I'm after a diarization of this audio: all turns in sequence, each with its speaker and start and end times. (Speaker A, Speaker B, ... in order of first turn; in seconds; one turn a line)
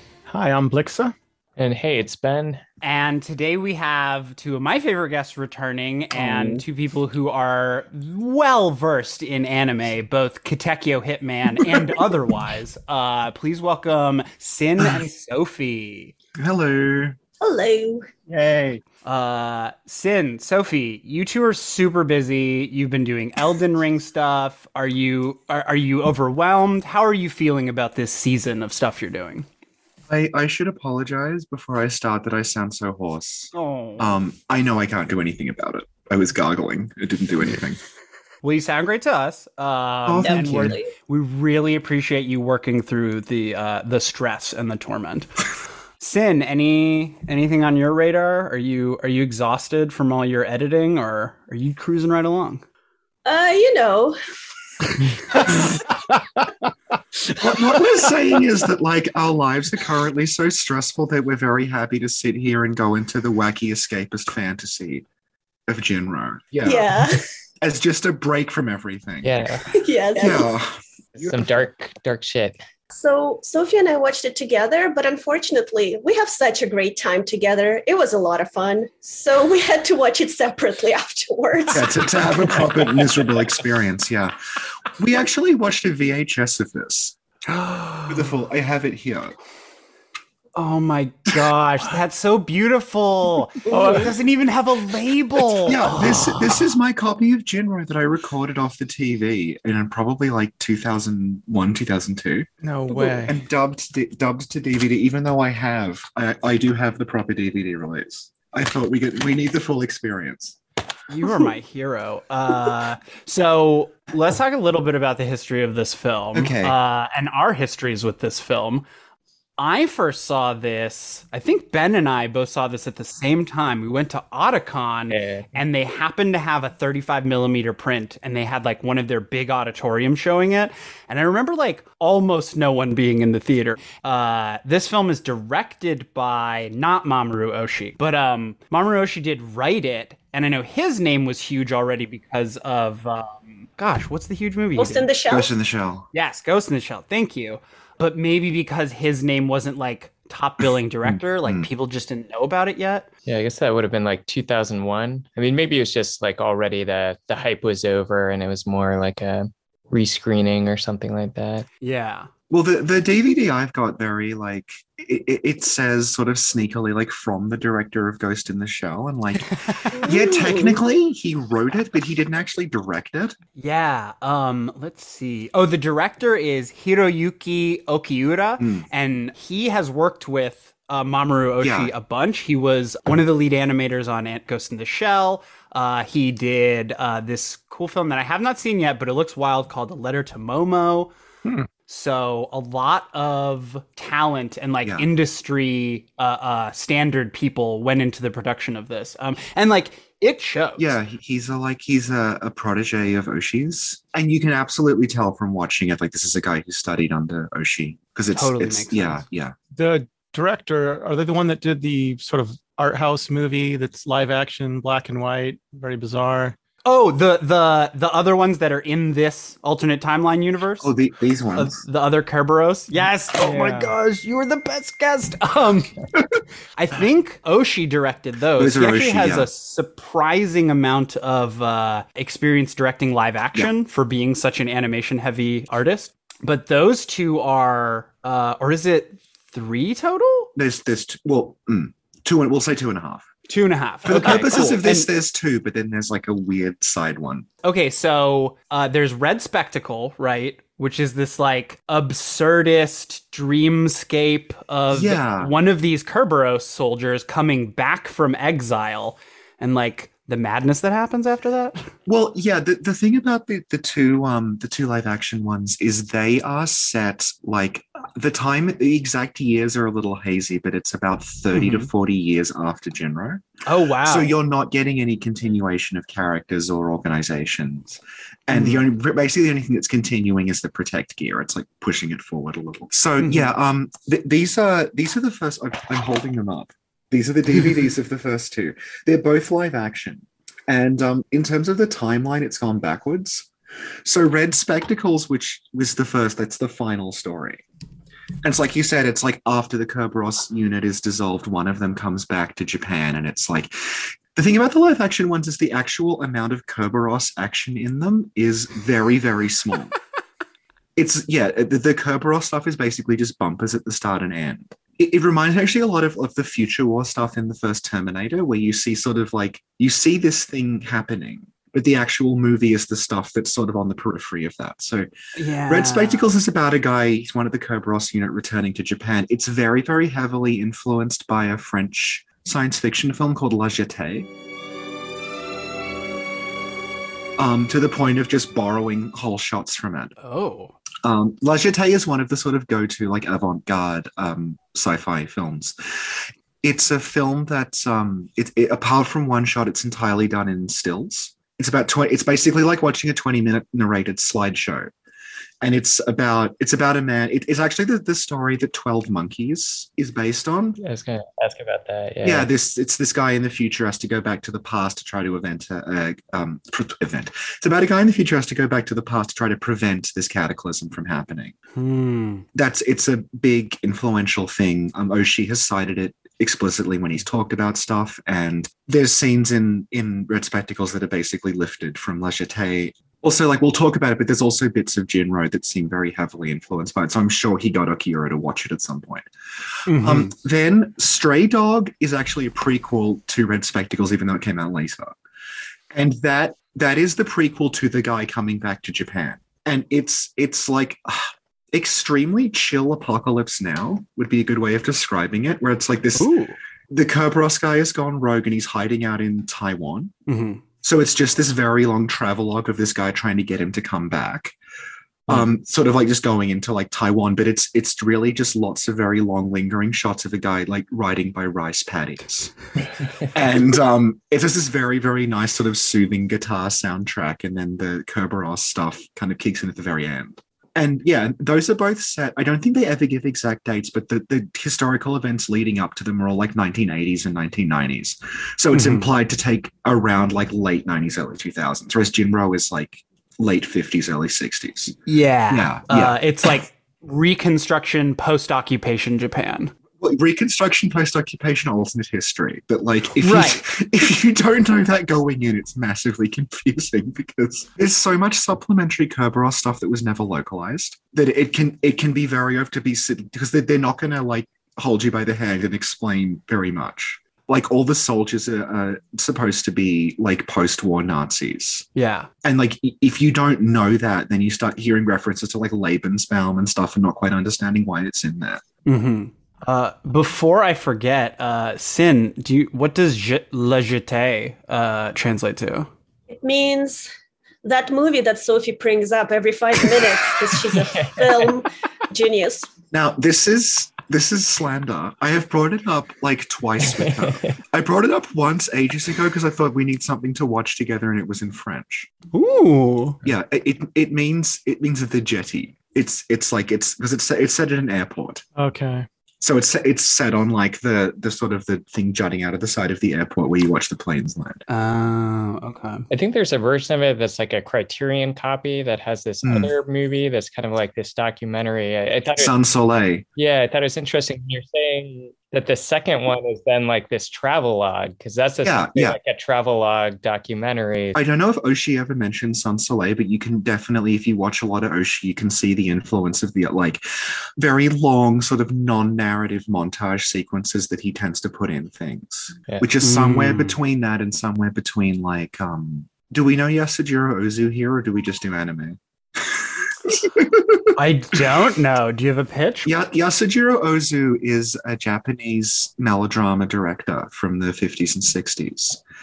Speaker A: 0.3-1.1
Speaker B: 1.6-2.6
Speaker C: 2.8-16.1
Speaker A: 6.2-6.6
Speaker D: 16.4-17.2
Speaker E: 17.4-18.1
Speaker A: 18.4-18.8
Speaker C: 19.0-29.5
Speaker D: 30.1-37.8
Speaker C: 33.5-34.1
Speaker C: 38.4-45.3
Speaker D: 40.0-40.8
Speaker E: 40.2-40.9
Speaker C: 46.0-52.6
Speaker E: 53.2-54.2
Speaker E: 55.3-55.6
Speaker A: 55.6-56.4
Speaker D: 57.4-65.0
Speaker D: 65.7-69.5
Speaker E: 66.6-67.3
Speaker B: 69.2-69.8
Speaker E: 69.7-70.5
Speaker D: 70.1-71.5
Speaker B: 71.2-72.6
Speaker E: 72.9-82.6
Speaker D: 81.7-84.3
Speaker D: 84.9-87.2
Speaker C: 87.5-88.2
Speaker D: 88.1-89.3
Speaker C: 90.5-96.5
Speaker D: 95.6-102.5
Speaker A: 102.6-103.3
Speaker C: 102.9-103.2
Speaker D: 103.2-110.6
Speaker C: 111.1-118.8
Speaker D: 116.3-116.8
Speaker C: 119.6-145.1
Speaker B: 125.1-125.5
Speaker E: 144.8-145.5
Speaker D: 145.3-146.1
Speaker C: 146.1-153.1
Speaker D: 151.0-151.7
Speaker B: 153.2-161.7
Speaker C: 161.8-162.3
Speaker D: 162.5-173.4
Speaker C: 169.4-170.0
Speaker E: 169.9-170.8
Speaker C: 173.6-191.1
Speaker D: 178.6-178.8
Speaker D: 181.6-181.9
Speaker C: 191.9-200.9
Speaker D: 200.8-209.5
Speaker C: 208.3-209.2
Speaker A: 209.7-216.6
Speaker C: 216.8-220.9
Speaker D: 220.8-221.8
Speaker C: 221.5-225.9
Speaker A: 223.4-223.9
Speaker C: 226.8-240.5
Speaker D: 228.6-229.5
Speaker D: 240.6-243.3
Speaker C: 243.5-245.1
Speaker D: 244.0-247.4
Speaker C: 247.6-261.9
Speaker D: 254.9-255.5
Speaker D: 262.1-273.4
Speaker C: 271.5-271.9
Speaker C: 273.6-274.3
Speaker D: 274.0-293.5
Speaker C: 283.2-283.5
Speaker D: 294.0-297.6
Speaker D: 298.4-310.0
Speaker D: 310.9-325.1
Speaker C: 325.3-326.3
Speaker D: 325.7-334.3
Speaker D: 337.4-340.1
Speaker C: 340.2-340.7
Speaker D: 341.0-354.9
Speaker D: 355.6-360.8
Speaker B: 360.8-362.5
Speaker D: 362.2-371.5
Speaker C: 371.7-372.4
Speaker D: 372.5-389.3
Speaker C: 389.9-390.3
Speaker D: 389.9-395.1
Speaker D: 395.9-406.3
Speaker C: 406.1-406.6
Speaker D: 406.9-410.1
Speaker C: 410.3-410.6
Speaker D: 410.8-414.6
Speaker D: 415.3-422.5
Speaker D: 423.2-445.0
Speaker C: 438.7-439.1
Speaker C: 445.1-449.7
Speaker D: 445.5-446.5
Speaker D: 450.0-471.9
Speaker C: 453.2-453.6
Speaker C: 471.9-472.3
Speaker D: 472.4-478.6
Speaker C: 478.9-485.9
Speaker E: 486.3-487.1
Speaker E: 487.6-492.7
Speaker B: 490.8-491.5
Speaker D: 492.9-502.1
Speaker B: 497.0-497.6
Speaker C: 502.3-503.2
Speaker D: 503.2-508.4
Speaker A: 508.6-509.1
Speaker D: 509.4-514.6
Speaker C: 514.7-516.1
Speaker B: 516.1-522.5
Speaker D: 519.4-519.7
Speaker D: 522.3-523.2
Speaker B: 523.4-531.2
Speaker D: 528.6-529.2
Speaker D: 531.1-550.9
Speaker C: 543.0-543.7
Speaker C: 550.9-552.9
Speaker D: 552.8-559.0